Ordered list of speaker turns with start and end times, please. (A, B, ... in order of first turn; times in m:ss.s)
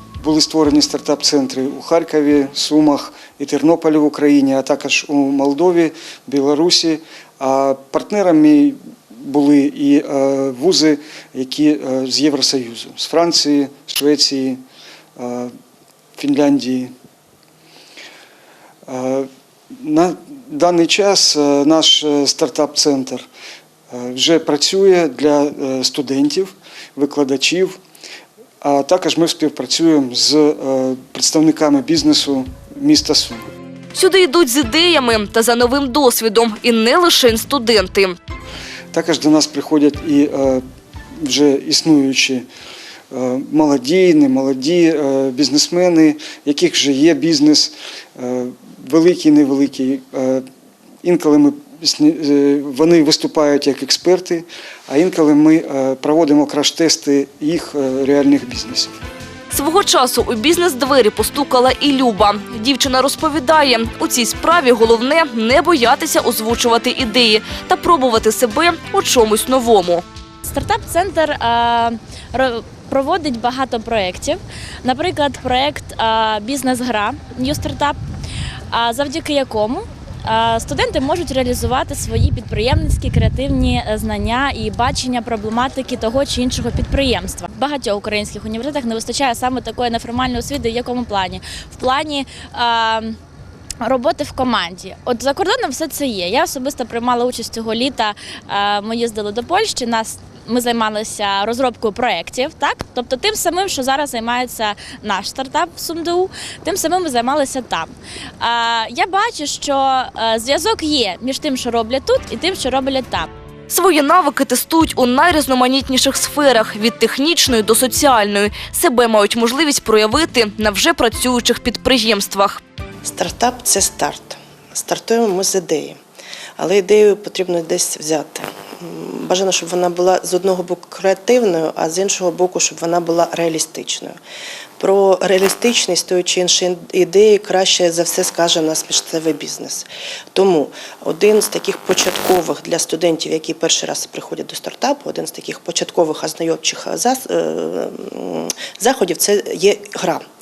0:00.2-0:14.6 A
0:15.2-0:15.5 A
0:16.2-0:16.9 A
0:18.9-0:23.3 A
0:23.9-0:27.8 A
0:28.6-0:33.5 A
0:34.0-0:38.2 B
0:38.9-0:40.6 A
0:41.2-0:42.5 A
0:43.1-0:50.4 A
0:51.0-0:58.9 A
0:59.5-1:10.0 B
1:10.4-1:18.0 C
1:18.7-1:33.2 C
1:33.8-1:53.3 C
1:53.7-2:02.6 B
2:03.0-2:06.0 D
2:06.6-2:14.2 D
2:14.8-2:30.2 D